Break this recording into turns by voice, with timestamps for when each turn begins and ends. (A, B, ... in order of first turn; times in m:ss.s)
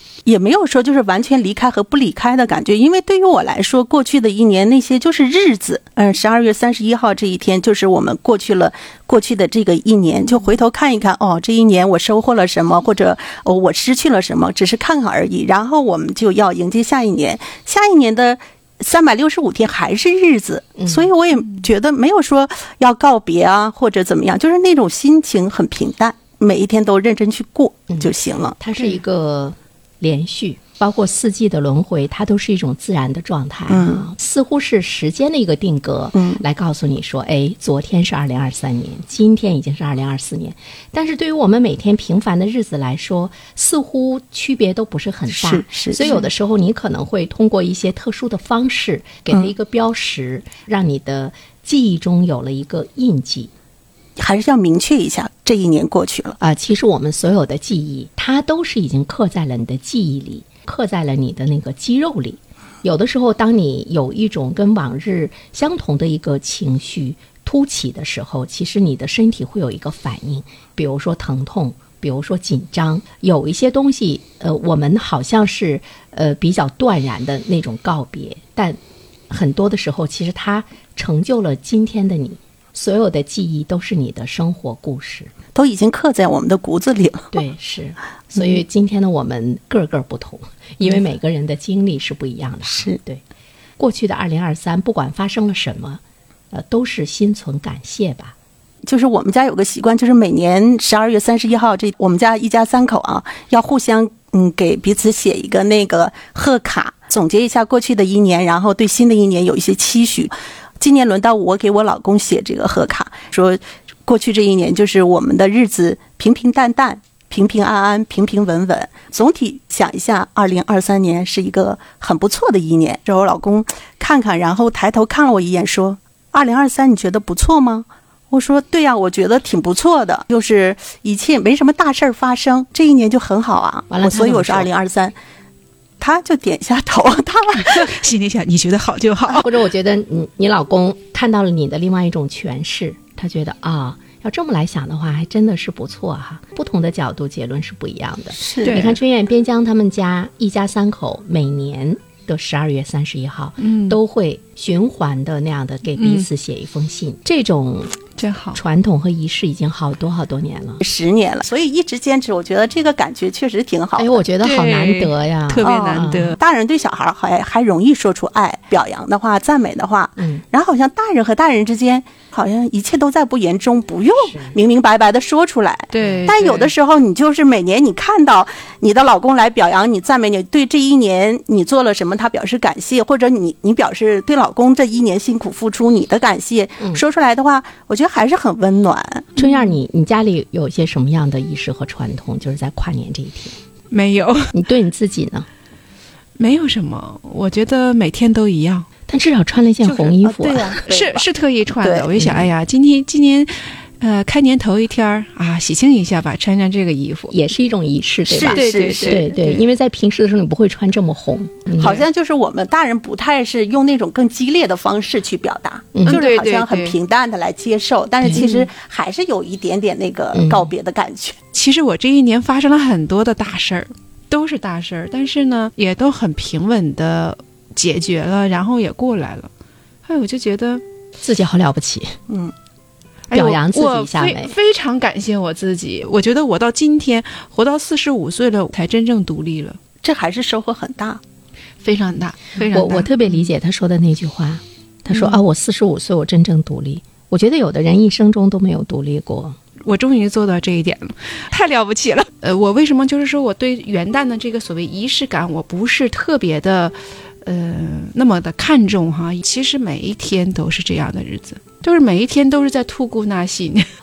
0:00.2-0:28.6 A
0:20.8-0:21.1 B
0:27.9-0:53.5 B
0:33.7-0:34.1 A
0:36.1-0:36.4 A
0:45.3-0:46.1 A
0:46.0-0:46.3 C
0:54.2-0:56.4 A
0:56.4-1:18.8 B
1:19.3-1:25.3 B
1:25.5-1:27.3 A
1:27.3-1:33.2 B
1:32.6-1:33.0 A
1:33.8-1:36.0 B
1:36.5-1:38.3 B
1:38.8-2:15.1 A
2:13.9-2:14.7 B
2:16.0-2:17.9 A
2:17.6-2:19.5 C
2:19.3-2:38.0 B
2:28.4-2:28.8 A
2:28.6-2:29.0 C
2:33.6-2:34.0 C
2:36.0-2:36.2 C
2:38.2-2:38.6 C
2:38.5-2:40.8 B
2:40.8-2:44.2 A
2:44.0-2:46.3 B
2:44.4-2:46.4 C
2:45.6-3:09.3 A
2:55.9-2:56.7 C
3:09.3-3:13.6 B
3:09.4-3:09.7 C
3:13.9-3:14.5 C
3:14.5-3:15.5 B
3:16.4-3:18.9 C
3:19.1-3:20.8 B
3:19.8-3:21.2 A
3:20.9-3:27.3 C
3:21.8-3:22.2 A
3:22.2-3:22.5 B
3:27.3-3:32.0 B
3:28.3-3:29.2 A
3:28.5-3:29.6 C
3:31.8-3:41.4 A
3:35.9-3:36.2 B
3:36.0-3:37.0 C
3:38.2-3:38.5 B
3:38.3-3:38.7 C
3:40.3-3:40.7 B
3:41.5-3:49.5 C
3:50.0-3:50.8 C
3:51.2-3:52.2 B
3:53.3-3:59.8 C
3:53.3-3:54.5 B
4:00.0-4:01.2 A
4:01.8-4:03.1 C
4:02.7-4:09.6 B
4:09.8-4:23.8 C